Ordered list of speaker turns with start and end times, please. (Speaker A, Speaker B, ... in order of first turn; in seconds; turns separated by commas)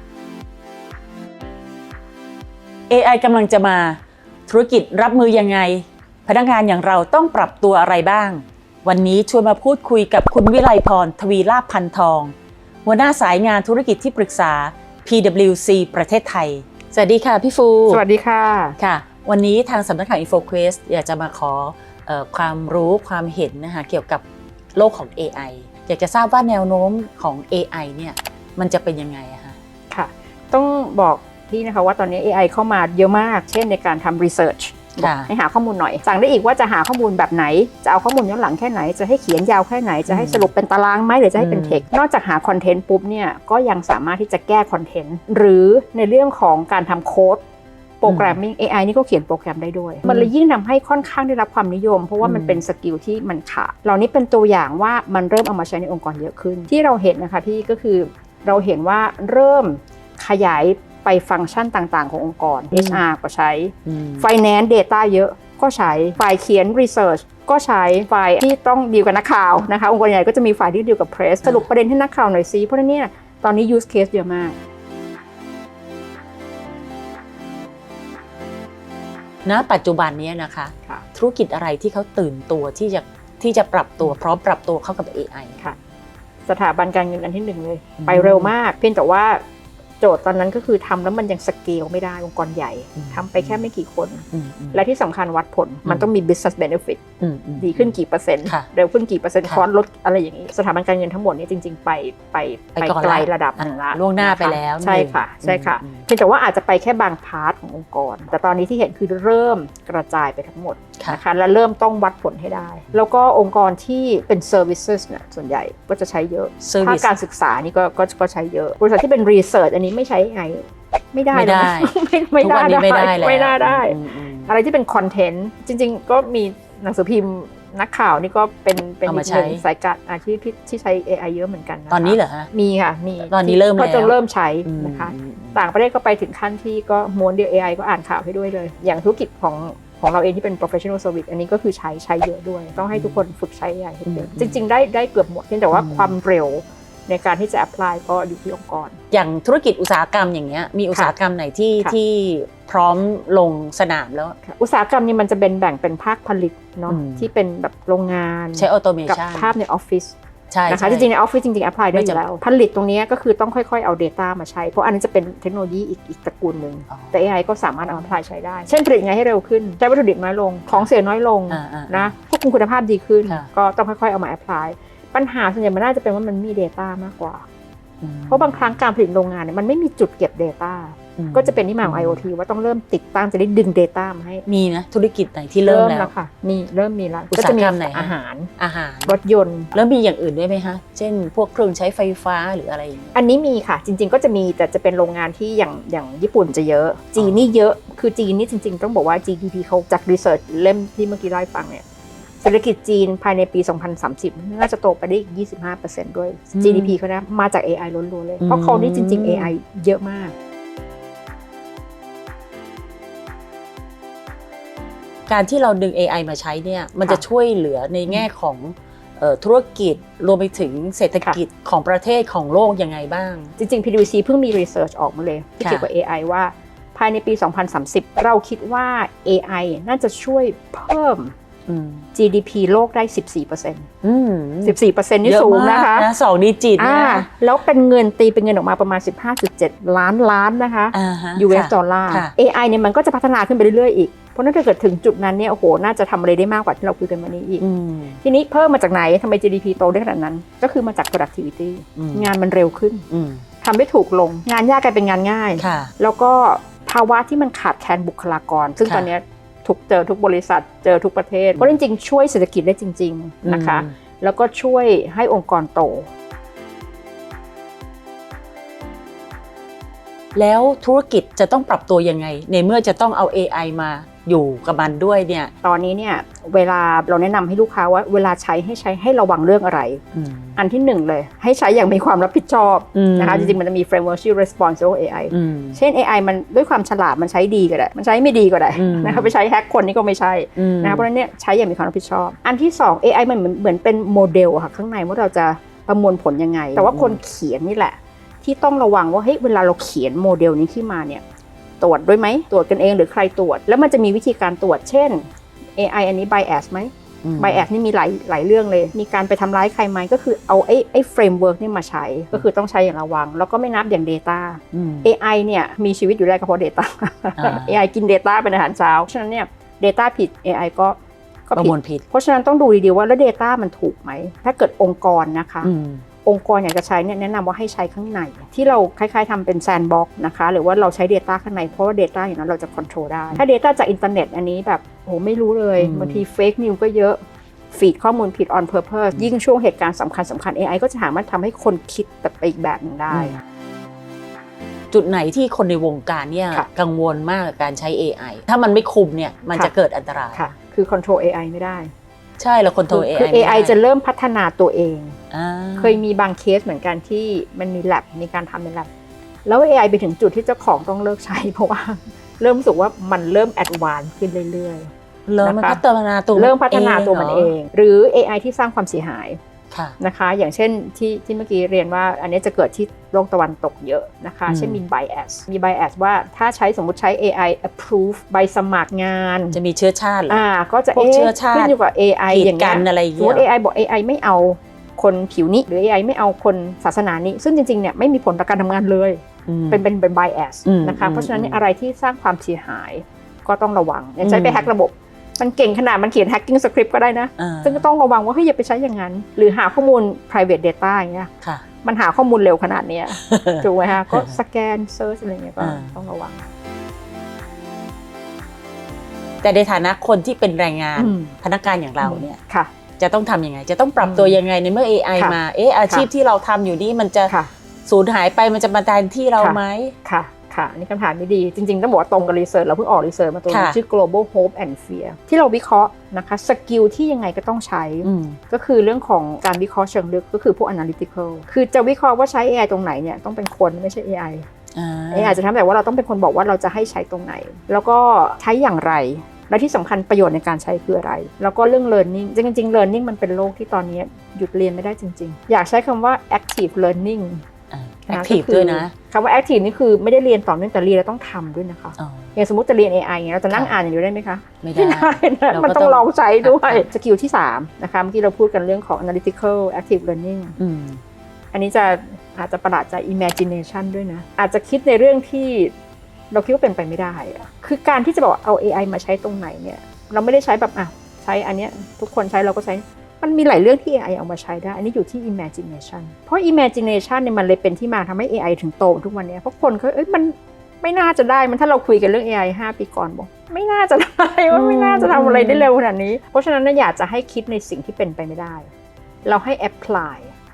Speaker A: 2.9-12.3, Speaker A: 12.8-18.0, Speaker B: 17.9-18.8, Speaker A: 18.8-24.2, Speaker A: 24.8-29.6, Speaker B: 29.9-47.4, Speaker A: 35.0-35.3, Speaker A: 40.1-40.5, Speaker A: 41.4-41.8, Speaker B: 48.0-74.5, Speaker A: 48.0-48.4, Speaker A: 50.0-50.3, Speaker A: 52.2-52.6, Speaker A: 62.7-63.0, Speaker A: 63.9-64.2, Speaker A: 79.4-85.6, Speaker B: 86.5-89.4, Speaker A: 88.0-88.5, Speaker B: 90.0-97.0, Speaker A: 93.0-93.6, Speaker A: 94.3-94.8, Speaker A: 97.2-97.9, Speaker B: 97.6-149.0, Speaker A: 102.8-106.0, Speaker A: 116.6-117.1, Speaker A: 121.3-124.5, Speaker A: 129.0-129.6, Speaker A: 131.9-132.5, Speaker A: 133.2-134.1, Speaker A: 134.7-135.6, Speaker A: 142.8-143.2, Speaker A: 144.1-144.6, Speaker A: 145.7-146.1, Speaker A: 149.1-154.4, Speaker B: 154.4-160.2, Speaker A: 156.9-157.3, Speaker A: 158.6-159.5, Speaker A: 160.5-161.1, Speaker B: 160.7-177.4, Speaker A: 161.9-162.2, Speaker A: 166.9-167.3, Speaker A: 171.5-172.1, Speaker A: 178.0-178.8, Speaker B: 178.3-184.4, Speaker A: 181.2-182.2, Speaker A: 184.4-186.1, Speaker B: 185.6-188.5, Speaker A: 187.3-189.2, Speaker B: 189.1-189.8, Speaker A: 189.7-193.2, Speaker B: 193.1-201.8, Speaker A: 197.2-197.5, Speaker B: 202.4-210.3, Speaker A: 206.5-206.9, Speaker A: 208.4-209.5, Speaker A: 215.3-223.5, Speaker B: 223.6-231.3, Speaker A: 225.6-225.9, Speaker A: 231.7-232.1, Speaker B: 232.1-233.9, Speaker A: 234.0-237.3, Speaker B: 234.6-236.1, Speaker B: 236.8-247.6, Speaker A: 240.9-242.3, Speaker A: 247.6-248.2, Speaker B: 248.2-253.1, Speaker A: 251.9-252.3, Speaker A: 253.1-253.4, Speaker B: 253.6-266.1, Speaker A: 255.6-255.9, Speaker A: 263.4-263.9, Speaker A: 270.3-275.5, Speaker B: 275.6-280.0, Speaker A: 280.1-280.6, Speaker B: 280.6-301.2, Speaker A: 282.9-283.6, Speaker A: 285.3-285.8, Speaker A: 288.8-289.3, Speaker A: 290.6-291.1, Speaker A: 296.7-297.2, Speaker B: 301.8-320.9, Speaker A: 307.2-307.6, Speaker A: 314.7-315.1, Speaker A: 317.4-317.8, Speaker B: 321.5-325.7, Speaker A: 321.6-322.0, Speaker A: 325.6-326.0, Speaker B: 326.2-337.2, Speaker A: 335.8-336.2, Speaker B: 337.7-343.4, Speaker A: 343.1-343.4, Speaker A: 344.9-350.4, Speaker B: 350.3-351.9, Speaker A: 352.4-353.8, Speaker B: 352.9-355.2, Speaker A: 355.3-356.0, Speaker B: 355.8-358.9, Speaker B: 359.4-364.9, Speaker A: 365.3-367.5, Speaker B: 365.4-365.8, Speaker B: 366.3-369.4, Speaker A: 369.7-369.9, Speaker B: 370.0-379.6, Speaker A: 374.5-374.8, Speaker A: 379.5-380.4, Speaker B: 380.3-401.3, Speaker A: 380.9-381.7, Speaker A: 382.3-383.4, Speaker A: 389.5-389.8, Speaker A: 390.6-391.6, Speaker A: 394.2-394.7, Speaker A: 397.4-397.9, Speaker B: 401.8-406.5, Speaker A: 403.1-404.4, Speaker A: 405.6-406.0, Speaker A: 409.4-412.4, Speaker B: 410.9-411.3, Speaker B: 412.0-412.7, Speaker A: 413.0-417.3, Speaker B: 414.0-414.4, Speaker B: 415.1-416.1, Speaker A: 417.9-419.9, Speaker B: 419.4-434.5, Speaker A: 423.5-423.8, Speaker A: 428.0-428.4, Speaker A: 434.7-435.4, Speaker B: 435.1-447.4, Speaker A: 447.7-448.9, Speaker B: 448.1-460.6, Speaker A: 452.0-452.3, Speaker A: 454.6-456.9, Speaker A: 460.6-461.0, Speaker B: 461.5-465.7, Speaker B: 466.3-488.7, Speaker A: 484.5-485.7, Speaker B: 489.2-490.3